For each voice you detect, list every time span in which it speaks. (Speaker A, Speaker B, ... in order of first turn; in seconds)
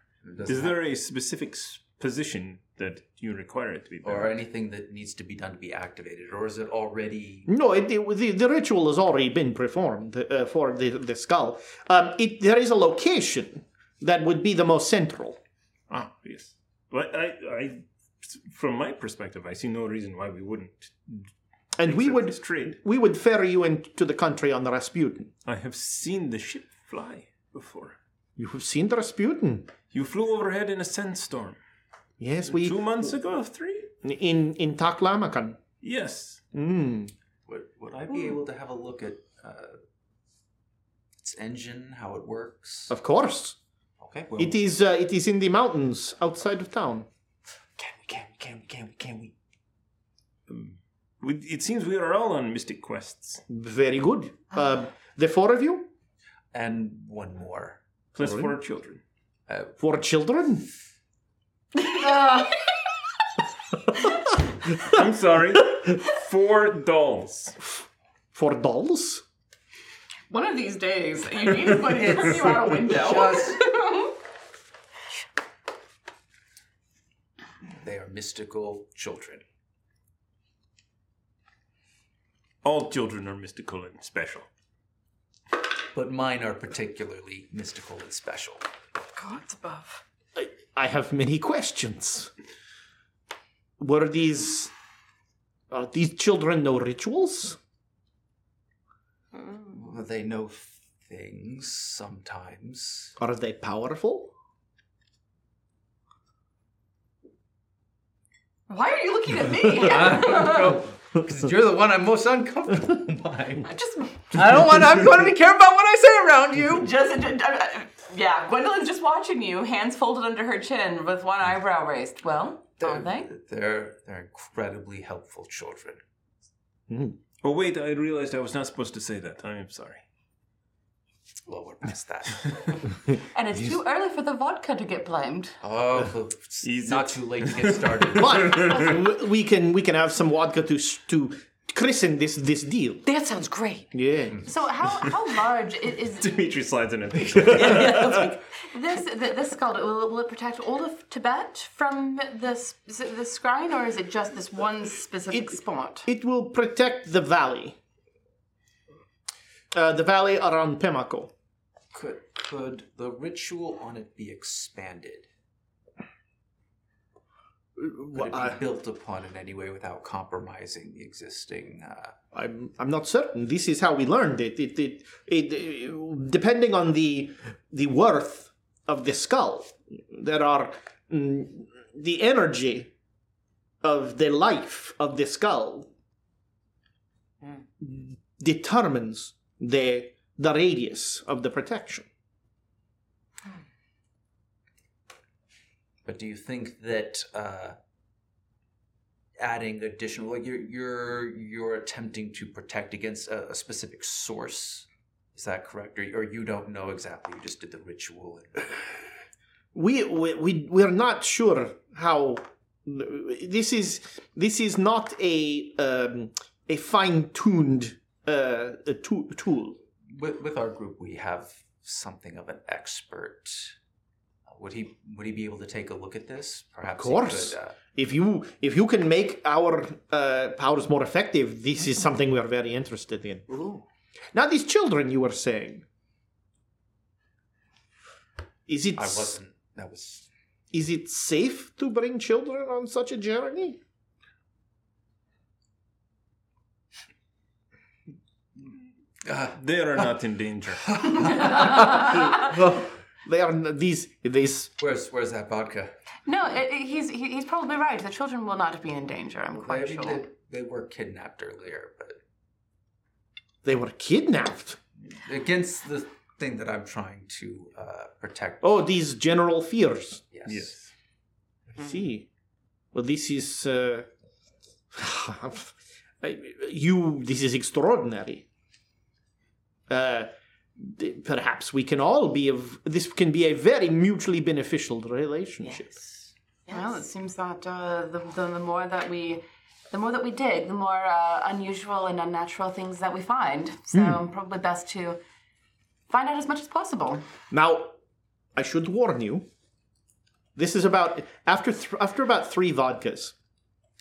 Speaker A: 0.2-0.8, 4.0-7.5, 37.5-39.8, 41.2-42.9, 44.0-44.6, 47.8-49.3, 56.5-57.8, 71.8-73.6, 77.8-79.4, 85.9-88.6, 99.7-103.2, 109.8-113.7, 114.3-116.9, 122.8-126.0, 131.5-132.9, 135.6-138.8, 161.9-165.3, 168.1-172.2, 196.1-197.8, 199.4-208.8, 220.1-223.8, 224.5-227.8, 239.0-240.3, 249.2-250.1, 250.8-252.9, 254.8-255.9, 259.6-262.2, 265.1-268.8, 270.3-270.7
Speaker B: 0.5-4.3, 15.9-21.3, 21.8-22.8, 25.4-28.0, 29.9-31.6, 32.5-33.9, 35.8-36.4, 50.5-53.4, 58.1-59.0, 64.3-67.6, 82.6-84.5, 127.4-130.0, 136.6-138.9, 146.2-148.2, 249.6-251.1, 270.5-270.9
Speaker C: 7.5-15.4, 21.8-25.3, 28.4-29.7, 32.2-33.2, 34.0-35.6, 36.5-37.1, 42.9-43.6, 44.4-47.1, 53.5-55.9, 58.2-58.5, 59.8-60.7, 68.3-69.2, 90.3-92.3, 93.8-94.7, 95.7-97.6, 103.2-104.3, 126.9-127.2, 138.1-143.0, 143.9-144.4, 155.3-157.8, 159.7-161.3, 167.8-168.6, 172.3-182.9, 183.8-185.9, 187.8-192.1, 209.7-219.8, 227.0-233.4, 234.3-235.8, 238.7-239.4, 240.7-243.8, 252.0-254.7, 263.6-264.8, 268.6-270.2, 271.8-272.3, 272.9-274.1, 274.9-278.4, 279.9-285.9, 297.5-297.9, 298.6-299.5, 300.6-303.3
Speaker D: 61.8-62.8, 70.3-74.2, 89.2-90.0, 108.7-110.8, 113.6-114.4, 116.7-123.3, 133.3-135.6, 144.4-146.3, 148.7-156.1, 251.2-252.4, 256.3-260.2, 286.7-295.2, 296.1-297.2
Speaker E: 99.3-99.8, 143.1-143.9, 147.5-148.4, 233.5-233.8, 285.6-287.0